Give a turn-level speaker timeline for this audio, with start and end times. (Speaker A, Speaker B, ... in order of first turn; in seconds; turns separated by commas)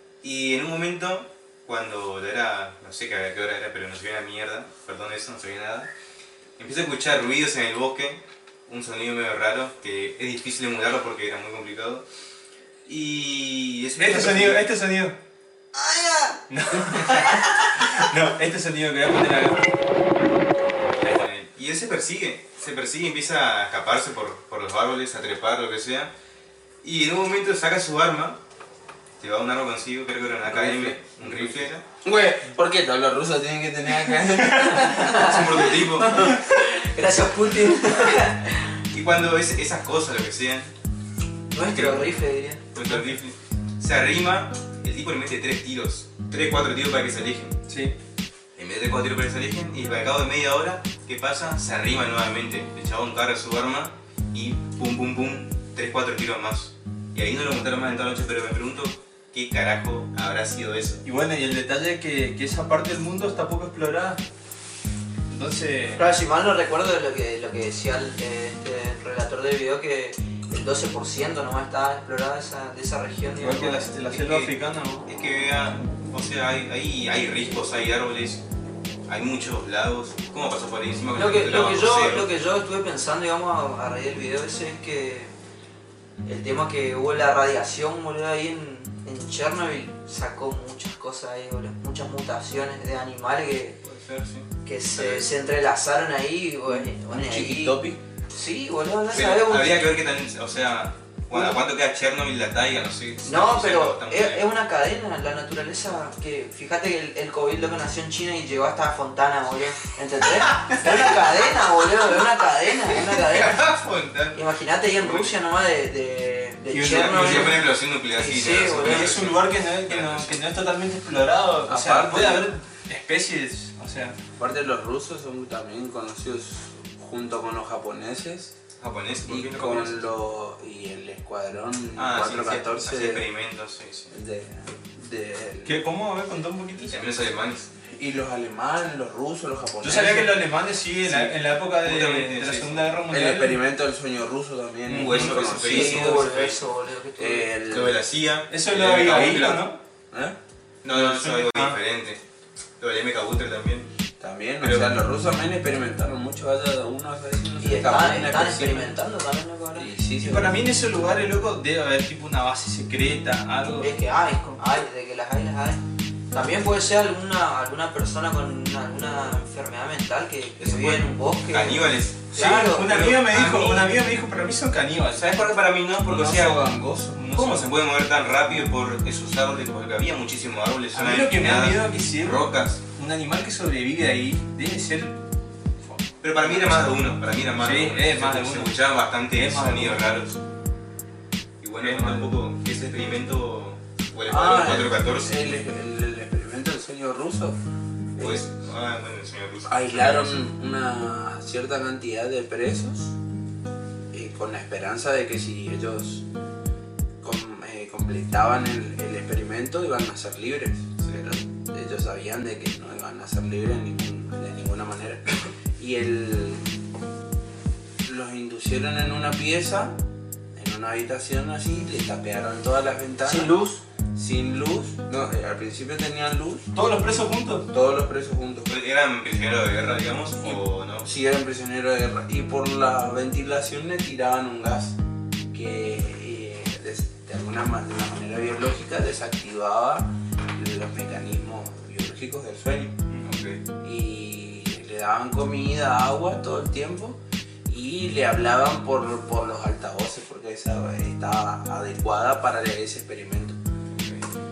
Speaker A: 0.2-5.9, Speaker A: 6.6-12.1, Speaker A: 12.9-14.7, Speaker B: 14.0-15.2, Speaker C: 15.7-18.1, Speaker B: 16.5-19.7, Speaker A: 20.9-26.1, Speaker A: 26.8-28.4, Speaker A: 29.2-31.8, Speaker D: 30.4-35.3, Speaker C: 34.5-38.8, Speaker A: 35.0-36.2, Speaker A: 38.9-40.7, Speaker C: 41.5-42.6, Speaker A: 41.6-42.1, Speaker A: 42.7-47.6, Speaker B: 42.8-43.2, Speaker B: 47.7-48.0, Speaker A: 48.6-61.0, Speaker B: 61.0-64.2, Speaker B: 65.3-66.2, Speaker C: 66.0-74.0, Speaker B: 73.4-75.1, Speaker A: 74.1-74.5, Speaker A: 75.1-78.4, Speaker A: 79.1-82.3, Speaker C: 81.1-85.3, Speaker C: 86.2-93.8, Speaker A: 93.8-95.3, Speaker C: 94.6-99.9, Speaker D: 96.7-98.0, Speaker A: 99.1-104.5, Speaker C: 101.3-101.6, Speaker C: 103.2-113.7, Speaker A: 112.9-115.4, Speaker C: 114.3-119.2, Speaker B: 116.7-117.6, Speaker A: 116.9-120.4, Speaker B: 118.8-124.2, Speaker D: 121.7-122.5, Speaker D: 124.4-128.5, Speaker A: 128.8-130.1, Speaker D: 129.2-133.3, Speaker A: 131.9-134.1, Speaker D: 134.1-135.8, Speaker B: 135.7-137.0, Speaker A: 136.9-137.7, Speaker D: 137.8-140.4, Speaker B: 139.8-143.6, Speaker A: 141.0-142.9, Speaker D: 143.1-146.3, Speaker B: 144.9-145.5, Speaker A: 144.9-146.6, Speaker C: 145.6-147.5, Speaker D: 147.2-148.1, Speaker A: 147.7-149.6, Speaker B: 148.5-149.8, Speaker D: 150.1-150.4, Speaker A: 150.8-152.2, Speaker B: 150.9-151.8, Speaker A: 152.8-153.9, Speaker D: 154.2-159.0, Speaker A: 154.6-154.9, Speaker C: 157.6-159.9, Speaker D: 159.7-160.7, Speaker B: 160.2-163.9, Speaker C: 163.7-173.0, Speaker A: 170.6-173.9, Speaker B: 172.3-175.4, Speaker A: 175.1-176.6, Speaker D: 175.3-177.1, Speaker B: 176.3-177.8, Speaker A: 177.3-182.8, Speaker B: 180.9-185.2, Speaker B: 185.8-187.0, Speaker A: 186.2-190.4, Speaker B: 187.6-190.1, Speaker A: 191.6-195.6, Speaker B: 191.8-192.3, Speaker D: 194.3-197.6, Speaker D: 198.2-198.6, Speaker A: 198.2-200.4, Speaker D: 199.7-203.1, Speaker D: 204.1-206.2, Speaker D: 207.2-216.7, Speaker D: 218.0-220.0, Speaker D: 220.6-226.7, Speaker C: 223.2-223.8, Speaker B: 226.7-227.7, Speaker D: 227.7-228.7, Speaker A: 228.7-231.1, Speaker D: 230.4-235.0, Speaker D: 235.5-243.0, Speaker A: 243.2-243.6, Speaker D: 243.8-253.6, Speaker A: 253.9-254.3